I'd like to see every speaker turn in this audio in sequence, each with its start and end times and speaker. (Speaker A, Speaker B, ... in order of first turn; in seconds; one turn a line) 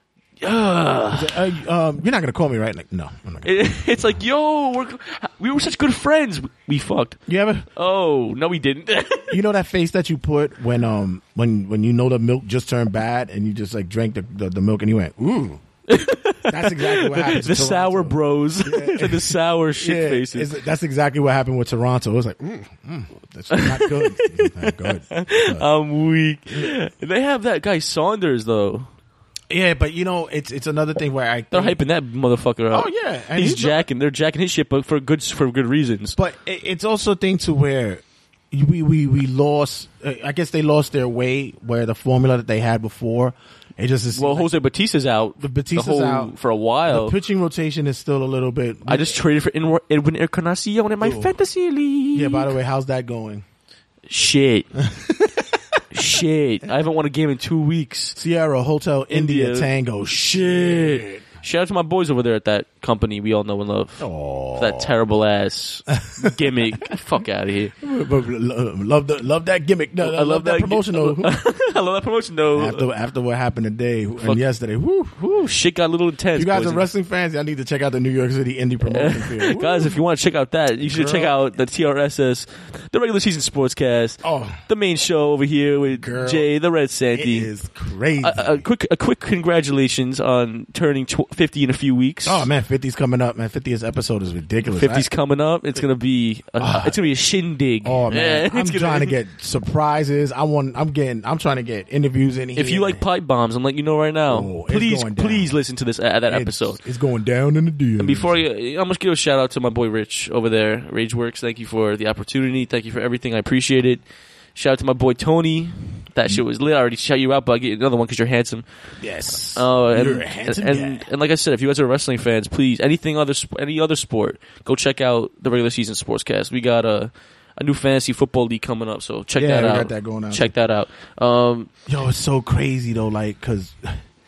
Speaker A: 0.4-1.4
Speaker B: 1.1-3.7
Speaker A: 3.4-7.2
Speaker B: 7.3-7.7
Speaker A: 7.7-9.3
Speaker B: 9.3-15.6
Speaker A: 15.9-20.5
Speaker B: 16.5-25.6
Speaker A: 23.5-28.9
Speaker B: 29.5-31.8
Speaker A: 31.5-36.2
Speaker B: 32.7-33.8
Speaker B: 36.1-44.6
Speaker A: 44.1-47.1
Speaker B: 45.4-46.3
Speaker B: 46.9-49.2
Speaker A: 48.9-52.5
Speaker B: 51.0-51.3
Speaker B: 52.1-53.4
Speaker A: 54.1-54.7
Speaker B: 54.8-55.8
Speaker A: 55.9-58.2
Speaker B: 58.1-61.2
Speaker A: 59.1-67.7
Speaker B: 64.0-64.9
Speaker B: 66.0-66.4
Speaker B: 67.8-71.3
Speaker A: 70.0-72.8
Speaker B: 72.5-75.5
Speaker A: 75.2-76.9
Speaker B: 76.3-80.0
Speaker A: 78.8-87.5
Speaker B: 80.8-81.4
Speaker B: 84.2-84.6
Speaker B: 86.0-86.5
Speaker B: 87.1-88.6
Speaker A: 88.2-92.5
Speaker B: 92.2-95.1
Speaker A: 94.7-99.2
Speaker B: 96.6-97.0
Speaker B: 97.8-103.0
Speaker A: 102.5-106.8
Speaker B: 104.3-105.5
Speaker B: 106.3-108.3
Speaker A: 108.0-114.0
Speaker A: 114.5-118.6
Speaker B: 119.0-121.0
Speaker A: 119.5-131.7
Speaker B: 129.3-130.5
Speaker B: 131.9-134.0